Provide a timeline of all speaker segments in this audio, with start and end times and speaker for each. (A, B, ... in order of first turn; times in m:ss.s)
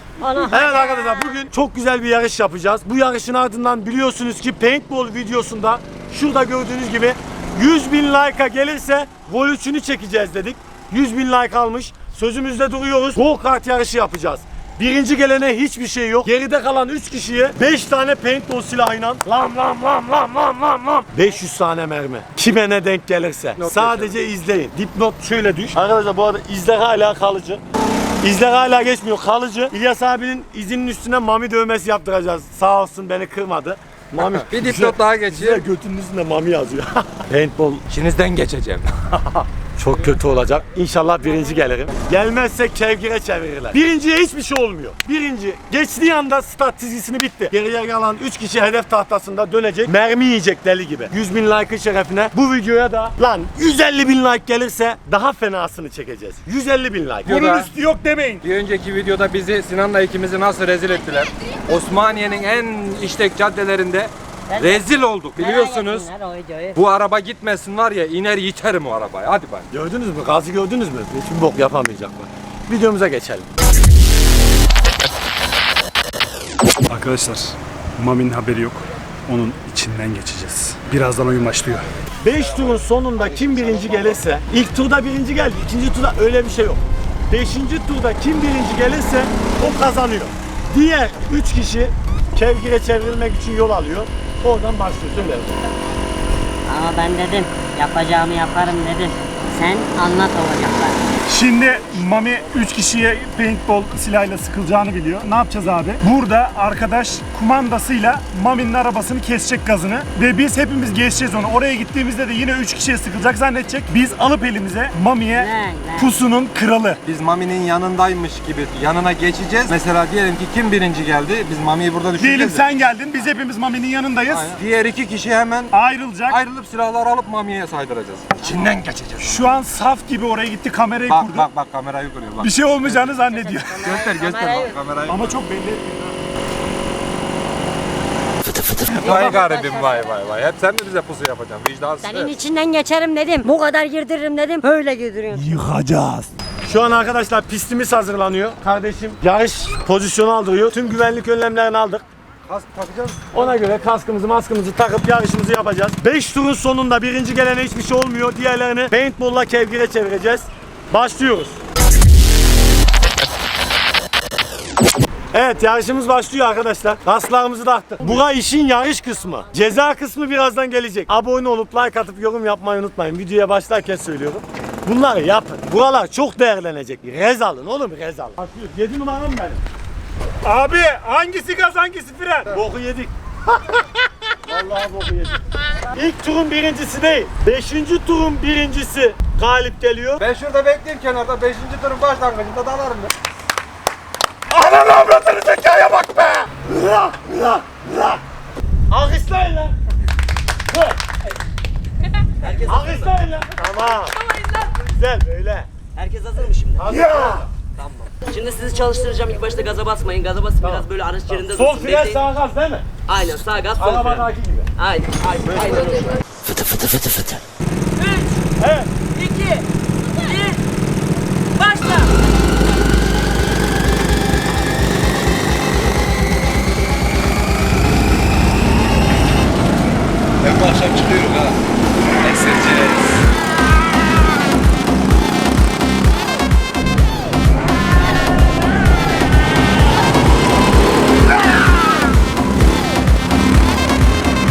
0:00.2-0:01.4 A
0:00.5-0:27.6 B
0:23.6-0:24.2 C
0:28.2-0:37.8 B
0:34.2-0:35.6 C
0:37.9-0:39.5 C
0:39.8-0:57.3 B
0:57.3-0:57.7 C
0:57.3-0:58.4 D
0:58.4-1:06.1 C
1:04.5-1:06.8 A
1:06.8-1:09.7 C
1:09.7-1:13.5 B
1:16.9-1:21.9 D
1:22.2-1:35.6 B
1:23.4-1:24.1 C
1:36.7-1:41.0 A
1:41.3-1:57.0 D
1:55.3-1:56.1 A
1:57.0-2:02.7 C
2:02.2-2:04.6 D
2:04.3-2:05.8 C
2:05.7-2:06.4 D
2:06.3-2:09.6 C
2:09.2-2:11.5 D
2:11.1-2:13.1 C
2:12.4-2:13.8 D
2:13.2-2:14.8 A
2:13.8-2:15.4 C
2:15.1-2:16.2 D
2:18.6-2:20.1 A
2:18.9-2:22.4 C
2:22.0-2:25.5 A
2:25.5-2:26.2 C
2:26.6-2:32.0 B
2:32.5-2:33.6 C
2:33.3-2:41.6 B
2:45.3-2:59.6 B
3:00.4-3:02.5 D
3:02.5-3:03.8 B
3:04.4-3:10.2 B
3:10.2-3:13.1 C
3:14.6-3:18.1 B
3:18.9-3:19.8 B
3:20.7-3:21.0 B
3:22.4-3:23.1 E
3:22.6-3:24.2 B
3:24.8-3:25.7 B
3:26.0-3:26.8 E
3:26.8-3:27.5 B
3:27.8-3:32.2 E
3:30.6-3:32.9 B
3:33.1-3:36.2 E
3:33.8-3:34.7 B
3:36.6-3:37.0 A
3:38.0-3:38.3 A
3:38.6-3:38.9 B
3:39.1-3:40.6 A
3:41.6-3:42.1 A